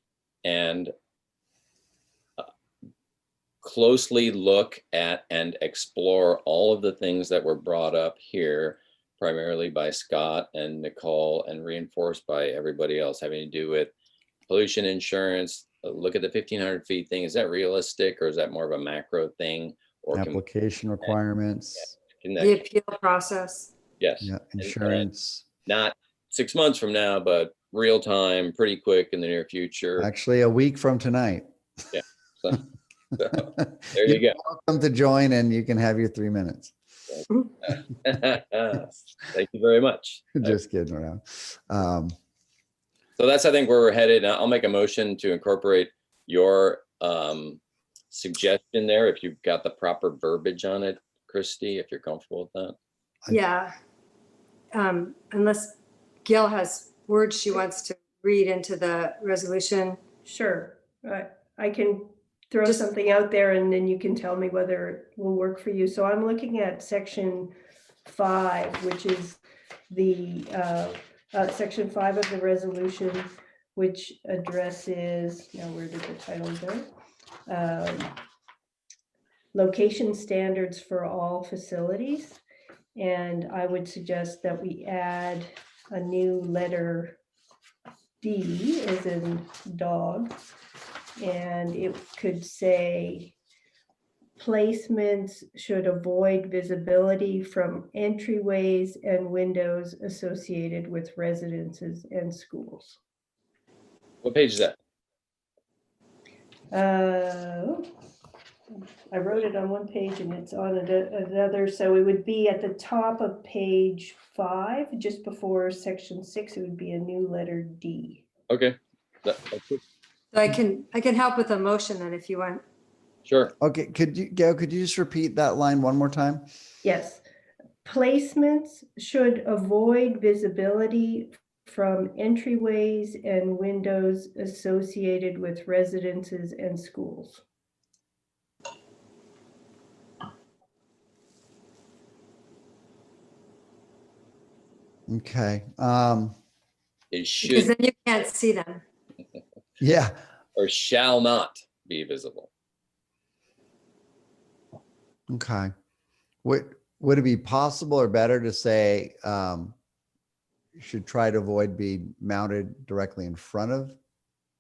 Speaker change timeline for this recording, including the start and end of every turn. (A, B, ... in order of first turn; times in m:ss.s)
0:00.4-0:00.9 A
0:03.6-0:13.9 A
0:14.5-0:20.4 A
0:20.1-0:21.9 B
0:22.2-0:22.6 A
0:22.4-0:23.7 C
0:24.0-0:25.0 A
0:24.2-0:25.4 B
0:25.6-0:30.1 A
0:30.0-0:31.5 B
0:31.9-0:32.6 A
0:33.2-0:34.4 A
0:33.4-0:36.7 B
0:37.6-0:40.6 A
0:40.3-0:42.1 B
0:43.2-0:47.6 A
0:48.1-0:52.8 A
0:53.3-0:53.7 C
0:54.7-1:00.0 C
1:00.2-1:07.5 D
1:08.0-1:09.4 D
1:09.9-1:16.9 D
1:17.5-1:18.2 D
1:19.5-1:22.4 D
1:23.0-1:27.2 D
1:28.2-1:30.4 D
1:31.2-1:33.4 D
1:34.4-1:43.0 D
1:44.2-1:44.8 A
1:46.7-1:47.9 D
1:49.1-1:58.2 D
1:58.5-1:59.8 A
2:00.3-2:02.6 C
2:03.2-2:03.5 A
2:03.6-2:06.5 B
2:06.8-2:07.2 D
2:07.8-2:17.4 D
2:25.1-2:26.3 B
2:27.1-2:27.7 A
2:27.4-2:28.8 C
2:29.8-2:30.2 B
2:30.6-2:32.5 A
2:35.3-2:35.7 B
2:36.4-2:39.8 B
2:40.8-2:44.0 B